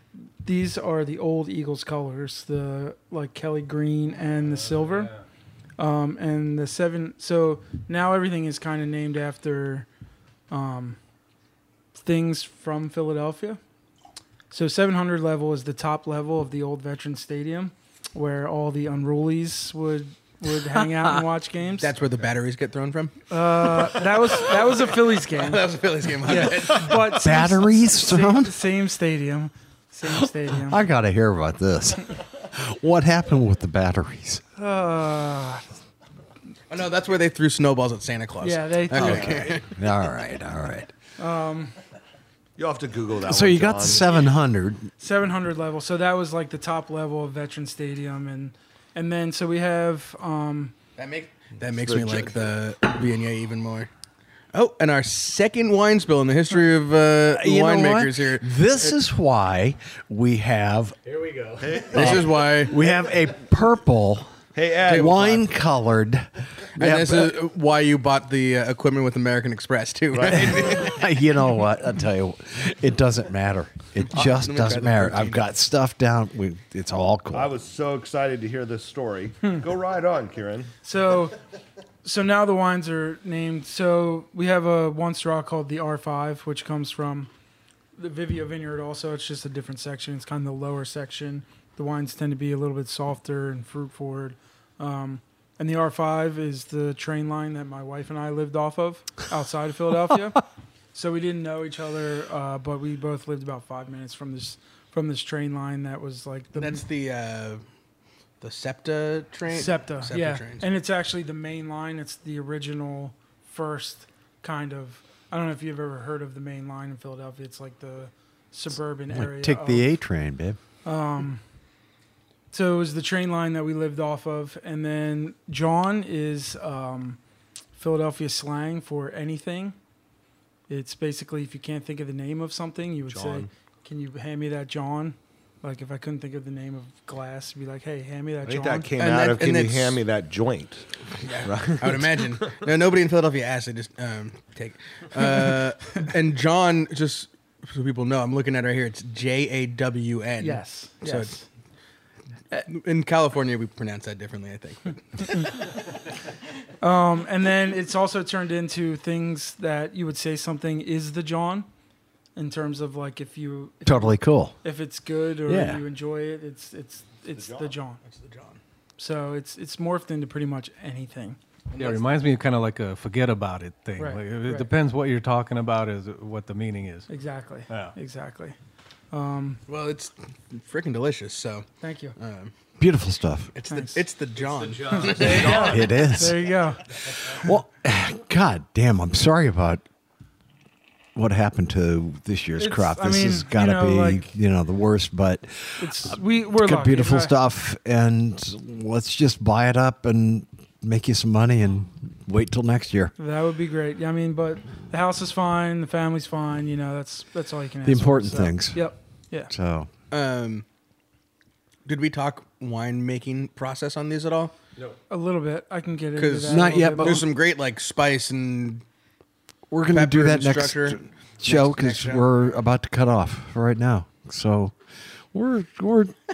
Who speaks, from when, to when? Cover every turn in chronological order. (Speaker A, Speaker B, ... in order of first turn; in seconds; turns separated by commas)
Speaker A: 0.4-5.2, Speaker B: 4.7-5.2, Speaker A: 5.8-9.9, Speaker A: 10.5-11.0, Speaker A: 12.0-13.6, Speaker A: 14.5-21.9, Speaker C: 21.8-23.2, Speaker A: 23.3-25.7, Speaker C: 24.3-27.2, Speaker A: 26.2-30.8, Speaker D: 27.0-28.6, Speaker D: 30.1-34.4, Speaker A: 34.6-35.6, Speaker C: 36.7-39.7, Speaker A: 38.4-39.5, Speaker D: 39.0-40.9, Speaker E: 39.0-39.4, Speaker A: 41.2-41.8, Speaker E: 42.6-44.2, Speaker D: 43.2-44.9, Speaker A: 45.0-50.8, Speaker C: 51.0-53.9, Speaker E: 51.6-52.5, Speaker C: 54.5-58.9, Speaker D: 57.3-61.0, Speaker B: 61.1-61.8, Speaker E: 61.6-62.5, Speaker C: 61.9-62.8, Speaker D: 61.9-67.4, Speaker E: 64.5-65.4, Speaker C: 64.8-65.4, Speaker C: 66.8-71.0, Speaker E: 70.1-70.9, Speaker D: 70.8-77.5, Speaker C: 74.1-75.5, Speaker E: 77.3-80.7, Speaker A: 80.8-81.4, Speaker A: 82.0-87.3, Speaker A: 88.0-106.8, Speaker C: 106.5-107.6, Speaker C: 108.4-110.7, Speaker A: 109.5-120.0, Speaker D: 119.1-120.6, Speaker A: 120.8-121.4, Speaker A: 122.5-127.2, Speaker A: 127.8-129.8, Speaker A: 130.7-138.9, Speaker E: 133.1-133.5, Speaker E: 138.4-140.9, Speaker C: 139.0-140.0, Speaker C: 141.2-151.4, Speaker E: 141.4-142.5, Speaker A: 150.4-151.5, Speaker C: 152.7-155.6, Speaker A: 156.8-161.7, Speaker A: 162.4-168.0, Speaker D: 163.9-164.6, Speaker D: 165.5-165.8, Speaker E: 167.3-167.8, Speaker C: 168.0-168.6, Speaker A: 169.0-171.4, Speaker C: 171.7-172.0, Speaker B: 171.8-177.1, Speaker A: 174.0-174.7, Speaker A: 177.1-178.6, Speaker B: 177.7-177.9, Speaker A: 179.1-179.6, Speaker C: 179.7-182.5, Speaker A: 181.8-182.2, Speaker D: 182.8-183.5, Speaker C: 183.5-185.7, Speaker A: 183.7-184.1, Speaker B: 184.5-185.6, Speaker A: 184.9-187.5, Speaker D: 185.4-186.5, Speaker D: 187.2-189.8, Speaker D: 191.2-203.1, Speaker A: 192.6-194.3, Speaker A: 195.8-197.3, Speaker A: 203.2-209.5, Speaker D: 207.8-208.9, Speaker D: 209.5-209.9, Speaker C: 210.1-210.7, Speaker C: 211.9-214.5, Speaker A: 215.1-217.2, Speaker C: 216.2-218.8, Speaker D: 216.5-217.2, Speaker D: 219.7-224.7, Speaker C: 219.9-222.5, Speaker D: 225.3-226.2